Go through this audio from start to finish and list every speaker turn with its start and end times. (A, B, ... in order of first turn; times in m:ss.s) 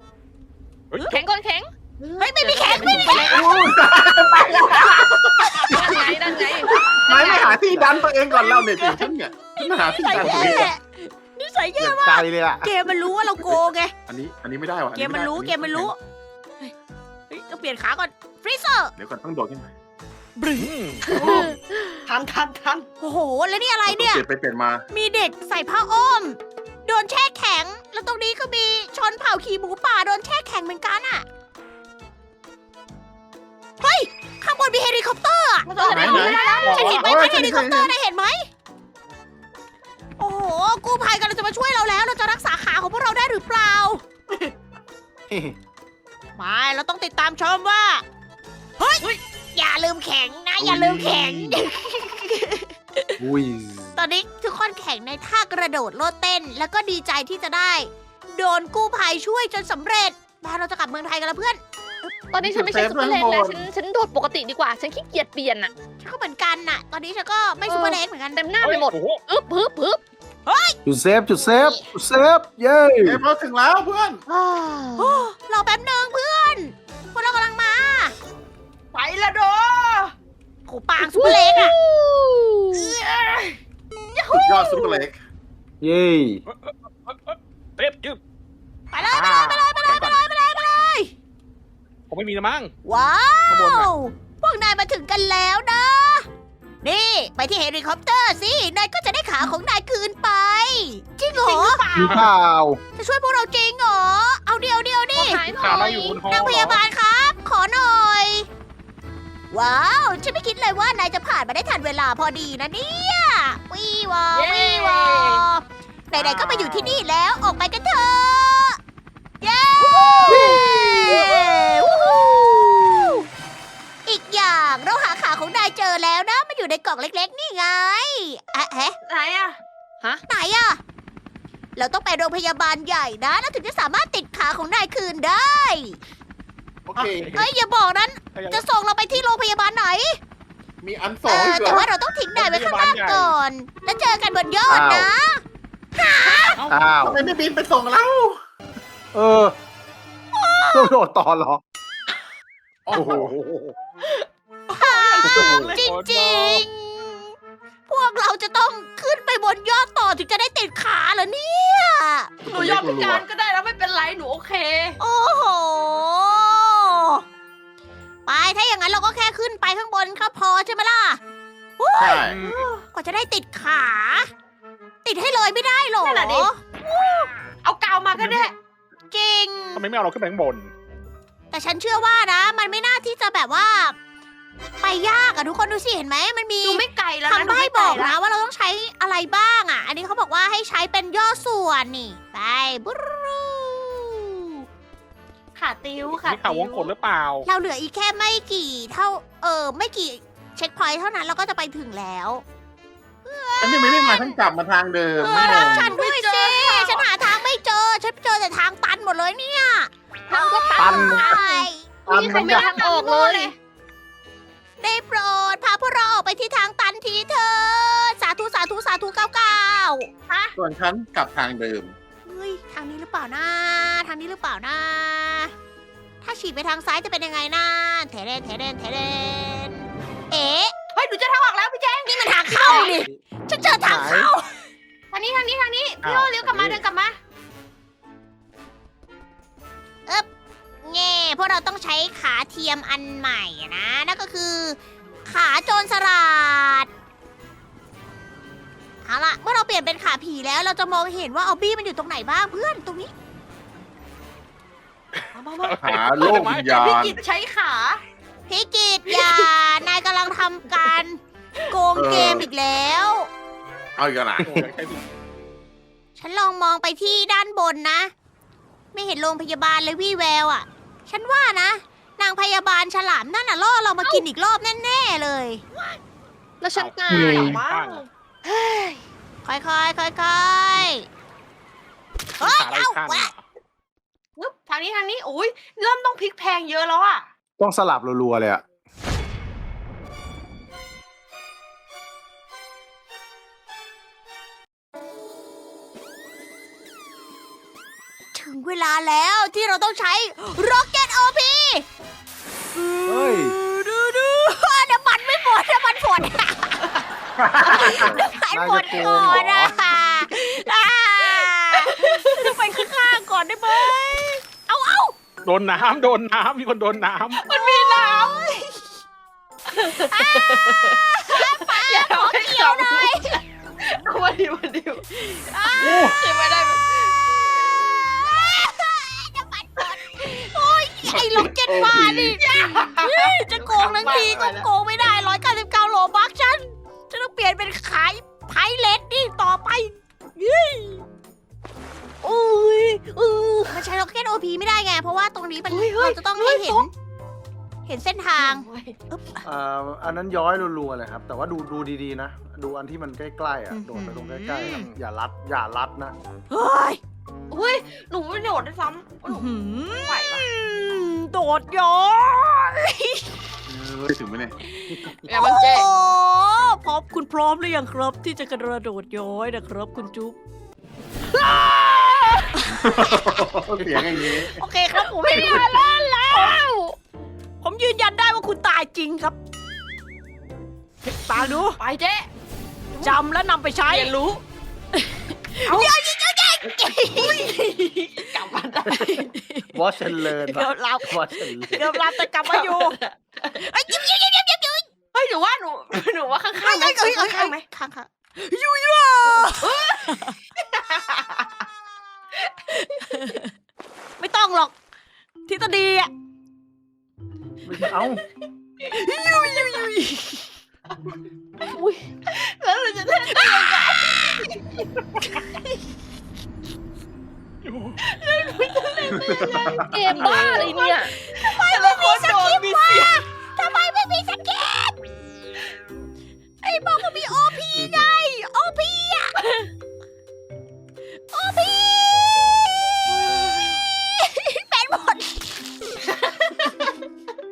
0:01.1-0:01.7 A
0:02.0-0:03.6 B
0:02.2-0:03.7 C
0:02.9-0:10.7 D
0:05.7-0:06.8 A
0:06.7-0:07.5 C
0:07.2-0:07.4 B
0:07.5-0:07.9 E
0:08.3-0:13.9 C
0:10.1-0:10.7 F
0:11.8-0:12.7 E
0:14.1-0:15.9 D
0:15.0-0:16.0 C
0:17.3-0:18.9 C
0:19.0-0:19.7 D
0:20.4-0:21.4 C
0:20.6-0:21.3 F
0:21.0-0:21.6 B
0:21.2-0:21.5 A
0:22.1-0:22.9 B
0:23.0-0:24.2 C
0:23.9-0:24.8 D
0:24.9-0:31.2 C
0:33.8-0:38.5 C
0:35.6-0:37.0 B
0:35.9-0:37.9 D
0:36.2-0:37.0 F
0:40.2-0:44.0 C
0:45.3-0:45.6 E
0:46.4-0:48.0 C
0:48.8-0:52.7 C
0:50.6-0:51.6 D
0:53.2-0:53.9 E
0:54.0-1:02.1 C
1:02.3-1:05.7 A
1:02.4-1:03.6 D
1:06.0-1:08.4 C
1:07.7-1:10.0 A
1:08.6-1:09.2 F
1:10.5-1:10.8 C
1:10.8-1:13.2 E
1:11.4-1:11.8 A
1:13.0-1:14.2 D
1:14.3-1:15.2 B
1:15.0-1:18.2 C
1:18.9-1:20.1 B
1:20.7-1:21.8 C
1:21.0-1:23.6 B
1:24.1-1:25.0 B
1:24.3-1:25.2 D
1:25.8-1:26.4 E
1:26.5-1:28.2 F
1:28.9-1:31.1 C
1:29.1-1:30.2 F
1:32.1-1:32.7 F
1:32.8-1:36.3 C
1:33.5-1:33.9 F
1:36.8-1:41.8 C
1:41.3-1:42.2 B
1:41.9-1:42.3 F
1:42.0-1:42.8 E
1:43.0-1:48.5 C
1:45.2-1:46.2 A
1:45.4-1:46.8 F
1:49.5-1:58.8 C
1:54.3-1:55.4 A
1:56.1-1:57.0 F
1:59.4-2:03.3 C
2:00.0-2:02.3 B
2:00.3-2:00.6 E
2:04.1-2:09.0 C
2:09.0-2:09.6 B
2:10.3-2:10.8 C
2:11.8-2:16.0 C
2:16.9-2:17.4 D
2:17.0-2:17.5 F
2:17.4-2:20.2 C
2:18.4-2:18.6 F
2:20.8-2:21.9 D
2:21.3-2:25.4 C
2:22.4-2:23.4 F
2:24.7-2:25.1 E
2:26.0-2:26.6 C
2:26.2-2:26.5 B
2:26.7-2:27.2 E
2:27.0-2:28.4 D
2:29.1-2:29.6 E
2:30.3-2:30.9 C
2:30.7-2:31.6 E
2:32.9-2:33.4 D
2:32.9-2:33.7 F
2:34.0-2:35.8 B
2:34.7-2:37.4 C
2:35.2-2:35.8 D
2:35.8-2:36.6 F
2:37.9-2:42.3 C
2:42.4-2:43.2 D
2:42.5-2:45.0 B
2:45.0-2:47.2 C
2:48.3-2:51.2 C
2:51.8-2:54.3 C
2:52.0-2:52.4 D
2:52.2-2:52.6 F
2:55.0-2:56.6 C
2:56.0-2:58.6 B
2:58.2-2:58.4 F
2:59.1-2:59.8 C
2:59.7-3:00.7 F
3:01.5-3:04.0 C
3:04.8-3:14.6 C
3:06.6-3:08.2 B
3:15.6-3:16.9 B
3:16.1-3:17.5 F
3:17.5-3:22.4 C
3:23.2-3:24.4 C
3:23.6-3:25.9 D
3:25.2-3:27.2 B
3:25.2-3:33.5 C
3:30.3-3:31.4 A
3:30.8-3:31.4 E
3:32.1-3:32.7 E
3:32.1-3:33.5 A
3:32.2-3:32.7 B
3:34.8-3:40.2 C
3:40.6-3:42.0 D
3:42.2-3:45.5 C
3:46.2-3:50.7 C
3:51.0-3:53.0 B
3:52.1-3:54.7 C
3:53.0-3:54.3 E
3:55.1-3:57.2 B
3:56.0-3:56.8 F
4:00.8-4:06.9 C
4:09.0-4:13.1 C
4:15.2-4:16.7 F
4:15.3-4:18.0 B
4:15.8-4:17.2 D
4:18.5-4:23.3 C
4:19.1-4:19.5 B
4:22.0-4:22.5 D
4:24.0-4:24.7 D
4:24.4-4:25.0 F
4:26.2-4:28.1 C
4:28.9-4:35.6 C
4:35.7-4:36.0 B
4:36.6-4:37.5 A
4:36.8-4:38.0 F
4:37.1-4:37.6 D
4:37.4-4:39.0 B
4:39.4-4:41.1 C
4:42.4-4:43.4 F
4:42.4-4:43.3 C
4:44.4-4:47.3 B
4:47.6-4:48.6 E
4:58.3-5:01.9 C
5:02.8-5:06.8 C
5:03.1-5:03.6 E
5:07.4-5:08.2 D
5:07.7-5:15.1 C
5:07.8-5:08.3 B
5:07.8-5:09.8 E
5:09.0-5:09.4 B
5:11.4-5:12.6 B
5:15.4-5:17.4 F
5:17.4-5:18.6 B
5:17.5-5:18.8 C
5:19.7-5:27.9 B
5:19.8-5:23.4 C
5:25.4-5:26.2 C
5:27.8-5:41.0 C
5:29.8-5:30.5 B
5:31.0-5:32.4 D
5:31.9-5:34.7 B
5:42.2-5:43.8 B
5:43.7-5:46.9 C
5:45.7-5:46.9 B
5:47.9-5:49.4 C
5:48.4-5:49.0 B
5:49.4-5:56.2 E
5:53.7-5:54.8 C
5:54.6-5:54.9 D
5:56.5-5:57.0 C
5:57.5-6:00.5 B
5:59.2-6:03.3 C
6:03.7-6:04.6 D
6:04.8-6:10.4 C
6:05.3-6:05.9 A
6:11.4-6:12.5 B
6:12.5-6:13.2 C
6:12.7-6:14.6 D
6:14.2-6:16.7 C
6:15.3-6:17.0 A
6:15.4-6:15.7 D
6:17.6-6:19.4 C
6:21.1-6:21.8 C
6:21.4-6:22.3 B
6:22.9-6:23.2 B
6:23.0-6:24.1 C
6:23.9-6:24.4 B
6:25.6-6:27.5 C
6:25.7-6:25.9 B
6:27.1-6:29.4 B
6:28.9-6:31.9 E
6:30.4-6:33.0 C
6:31.7-6:34.0 B
6:33.6-6:34.9 C
6:35.1-6:37.7 B
6:36.6-6:40.4 C
6:39.2-6:41.6 B
6:42.4-6:43.2 B
6:42.8-6:43.4 C
6:44.2-6:44.8 C
6:45.5-6:46.1 C
6:47.6-6:48.2 E
6:48.9-6:50.5 C
6:49.3-6:49.8 B
6:51.7-6:52.1 A
6:52.3-6:54.9 B
6:53.2-6:54.6 C
6:57.6-6:58.0 F
6:58.0-7:03.2 B
6:59.1-7:00.0 D
6:59.8-7:01.1 A
7:00.1-7:05.1 C
7:06.6-7:09.5 C
7:07.8-7:08.1 E
7:11.3-7:13.2 C
7:13.1-7:13.8 B
7:13.8-7:15.5 C
7:16.1-7:16.9 B